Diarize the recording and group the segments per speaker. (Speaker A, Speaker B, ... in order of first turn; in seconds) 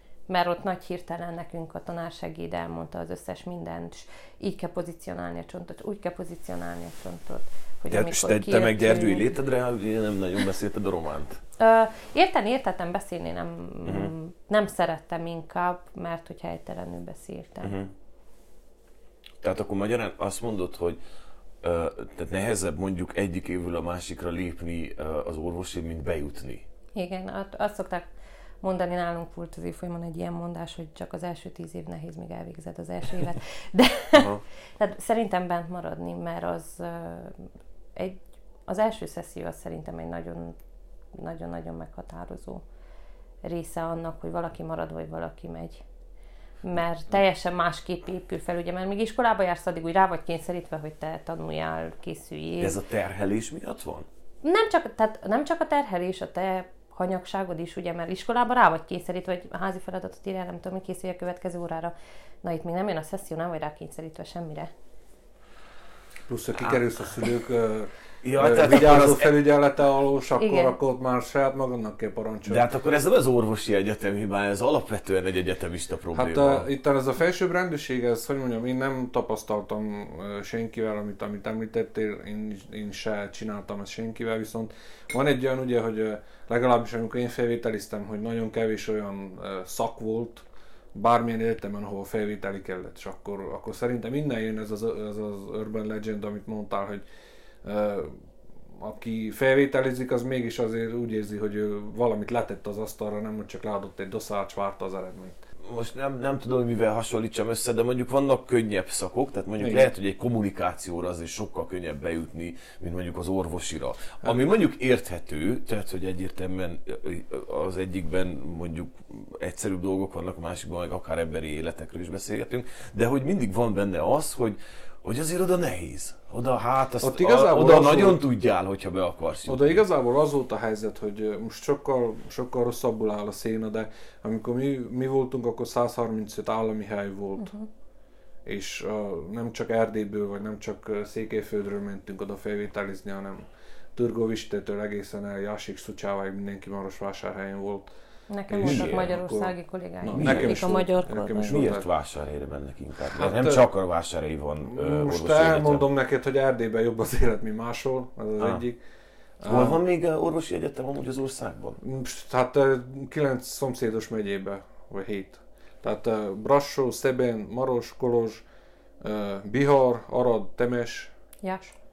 Speaker A: 0.3-9.3, 11.6-17.8, 26.9-28.1, 28.6-40.6, 41.1-42.6, 43.4-45.8, 46.6-52.8, 54.4-64.7, 70.4-70.7, 137.4-137.7, 148.3-151.7, 171.4-171.8
Speaker B: 7.9-11.4, 13.9-14.1, 17.6-17.9, 19.4-21.0, 21.6-26.6, 34.2-34.4, 52.6-54.1, 68.2-69.4, 72.5-76.7, 105.7-129.8, 148.5-149.2, 150.1-150.9, 151.4-155.9, 159.5-161.8
Speaker C: 66.3-72.7, 76.1-97.0, 97.6-98.2, 98.8-105.4, 109.6-109.9, 127.0-128.2, 129.5-137.5, 138.5-147.9, 148.5-151.9, 153.1-153.6, 154.6-158.8, 159.4-159.8, 161.8-168.4, 169.0-171.1